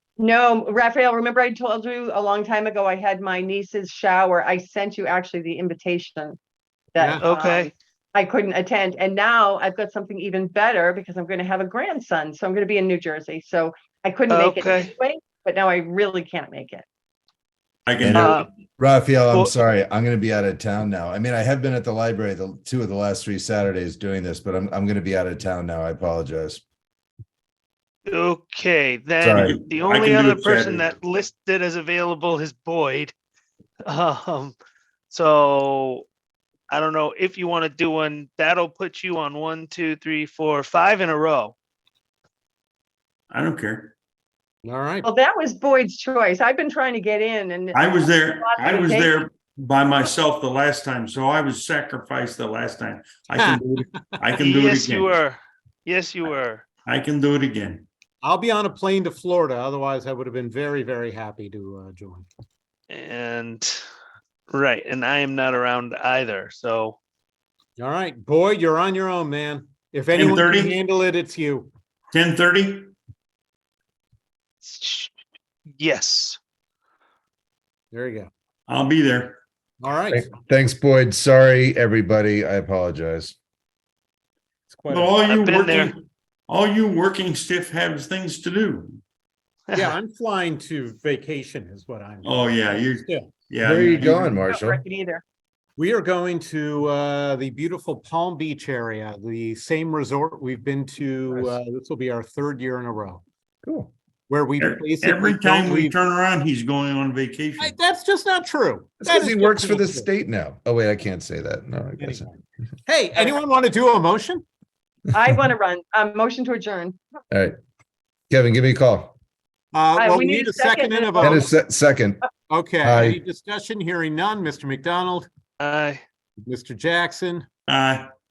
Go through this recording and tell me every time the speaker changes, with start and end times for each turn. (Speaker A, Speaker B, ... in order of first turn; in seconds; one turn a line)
Speaker A: 0.2-6.4
Speaker A: 7.0-16.9
Speaker B: 7.0-7.3
Speaker C: 7.2-7.7
Speaker C: 14.3-14.9
Speaker D: 17.9-18.4
Speaker E: 18.0-26.6
Speaker C: 18.1-18.5
Speaker C: 28.1-33.1
Speaker E: 29.2-29.6
Speaker D: 29.3-30.9
Speaker C: 33.9-34.6
Speaker C: 35.1-36.1
Speaker C: 36.7-41.5
Speaker D: 43.3-43.9
Speaker B: 44.6-45.1
Speaker A: 45.0-49.2
Speaker D: 47.7-55.2
Speaker B: 53.4-54.3
Speaker C: 54.4-56.7
Speaker D: 56.9-57.9
Speaker B: 58.2-62.3
Speaker C: 62.9-63.8
Speaker C: 64.5-67.0
Speaker B: 67.8-71.7
Speaker D: 70.1-70.8
Speaker D: 72.1-72.9
Speaker C: 74.6-75.1
Speaker C: 75.8-76.4
Speaker B: 77.9-78.3
Speaker D: 78.7-79.4
Speaker B: 79.8-80.3
Speaker E: 80.1-83.4
Speaker B: 84.7-85.2
Speaker D: 84.9-89.0
Speaker C: 85.2-85.9
Speaker B: 89.7-93.3
Speaker D: 92.2-94.4
Speaker E: 93.6-94.8
Speaker A: 94.4-95.2
Speaker B: 95.8-103.2
Speaker E: 103.7-103.9
Speaker B: 104.3-106.0
Speaker D: 104.6-107.8
Speaker B: 107.6-110.1
Speaker E: 109.0-112.3
Speaker B: 112.0-114.5
Speaker A: 115.1-117.0
Speaker E: 118.3-119.2
Speaker B: 119.7-121.5
Speaker A: 120.0-121.5
Speaker E: 121.2-122.3
Speaker B: 122.5-125.3
Speaker E: 122.8-123.2
Speaker C: 125.6-126.0
Speaker B: 126.4-127.5
Speaker D: 127.7-128.1